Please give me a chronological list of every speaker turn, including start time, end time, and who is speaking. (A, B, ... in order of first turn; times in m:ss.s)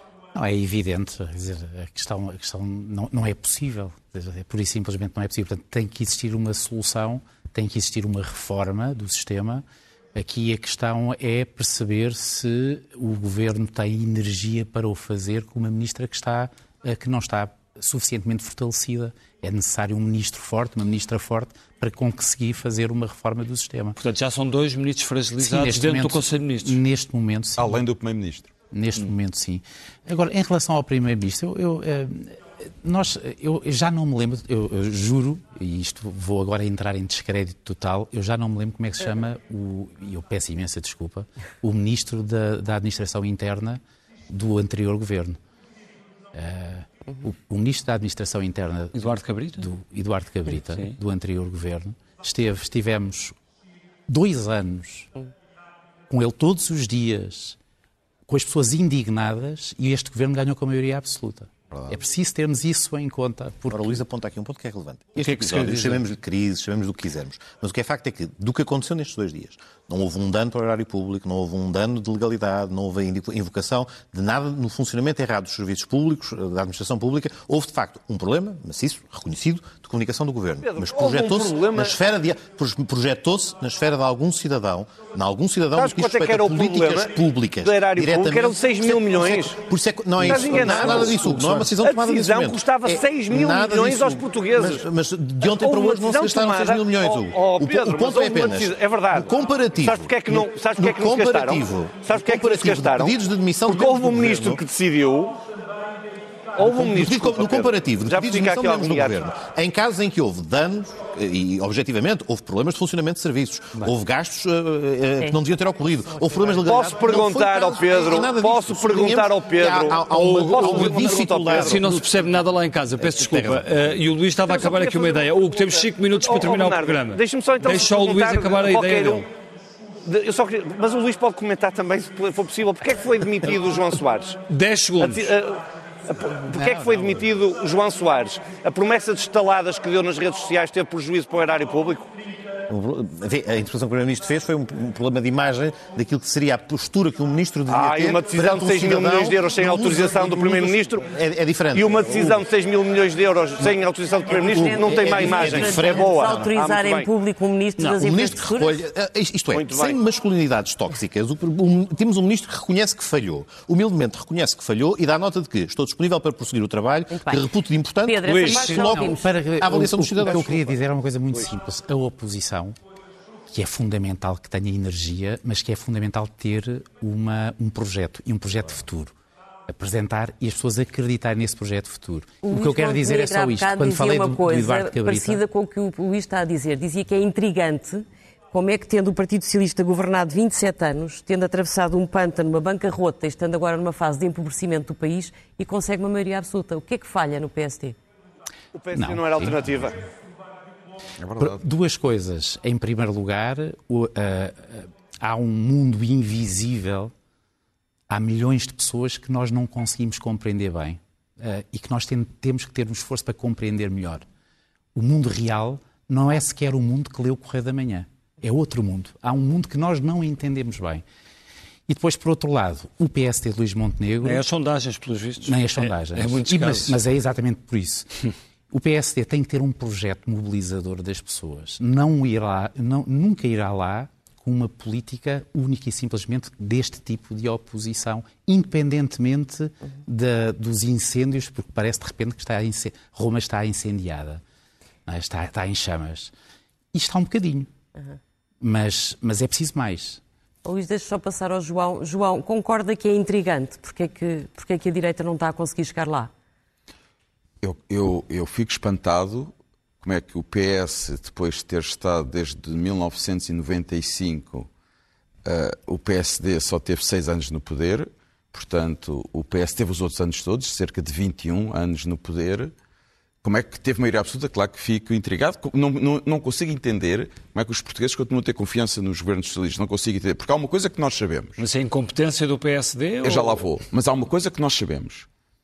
0:00.3-0:09.6 A
0:10.2-0:24.0 A
0:24.0-0:26.8 B
0:25.4-0:27.8 A
0:27.6-0:28.5 C
0:28.7-0:45.4 A
0:46.3-0:53.4 A
0:48.9-0:49.7 B
0:54.1-0:55.1 A
0:56.1-0:57.6 A
0:58.3-1:04.0 A
1:03.7-1:44.6 D
1:05.2-1:06.0 B
1:20.6-1:22.0 E
1:25.7-1:29.6 E
1:30.2-1:34.8 E
1:35.4-1:45.4 E
1:46.6-1:49.2 E
1:46.6-2:02.4 D
1:56.5-2:01.9 E
2:00.6-2:09.2 B
2:03.0-2:04.0 D
2:04.4-2:09.3 E
2:10.0-2:14.4 E
2:14.5-2:15.3 B
2:15.0-2:22.1 E
2:22.7-2:32.4 D
2:27.7-2:31.0 E
2:31.7-2:37.1 E
2:34.3-2:36.6 D
2:34.3-2:38.8 F
2:38.0-2:50.7 D
2:39.5-2:40.0 E
2:47.1-2:47.5 F
2:48.0-2:49.3 F
2:48.2-2:49.0 B
2:48.7-2:52.8 A
2:50.2-2:50.6 E
2:53.5-2:59.1 A
2:59.7-3:05.4 A
3:02.4-3:18.0 F
3:18.7-3:20.0 E
3:18.9-3:19.9 A
3:21.2-3:21.6 C
3:21.4-3:27.1 A
3:28.1-3:34.2 A
3:34.9-3:41.0 A
3:41.9-3:44.4 A
3:44.2-3:47.0 B
3:45.4-3:48.1 A
3:48.7-4:04.4 A
4:05.0-4:06.3 A
4:06.9-4:07.7 A
4:08.6-4:10.2 A
4:10.6-4:16.3 F
4:17.6-4:24.7 C
4:25.4-4:32.7 C
4:33.4-4:41.6 C
4:41.6-4:43.7 B
4:43.2-4:45.3 C